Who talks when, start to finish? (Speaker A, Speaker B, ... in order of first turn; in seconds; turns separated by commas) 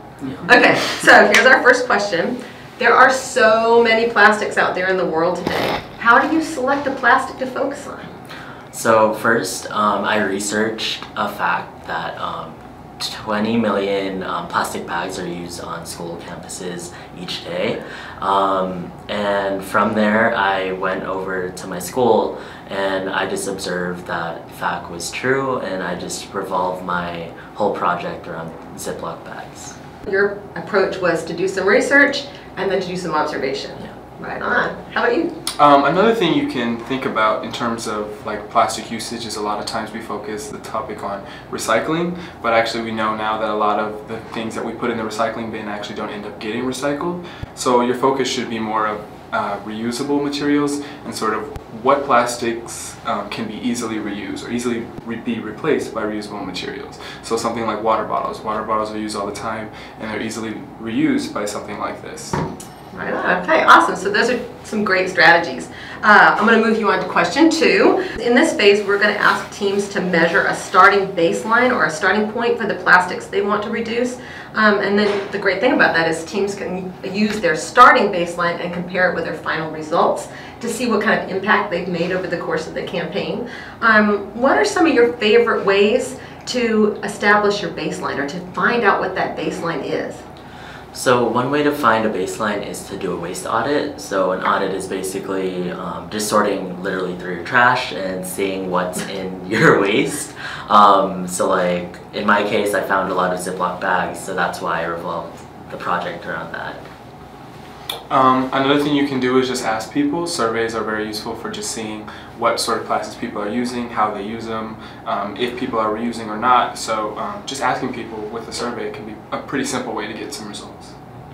Speaker A: 0.4-8.1, Speaker B: 8.7-29.7, Speaker A: 30.0-35.3, Speaker C: 35.6-62.4, Speaker A: 62.9-90.2, Speaker B: 90.9-106.8, Speaker C: 108.1-120.9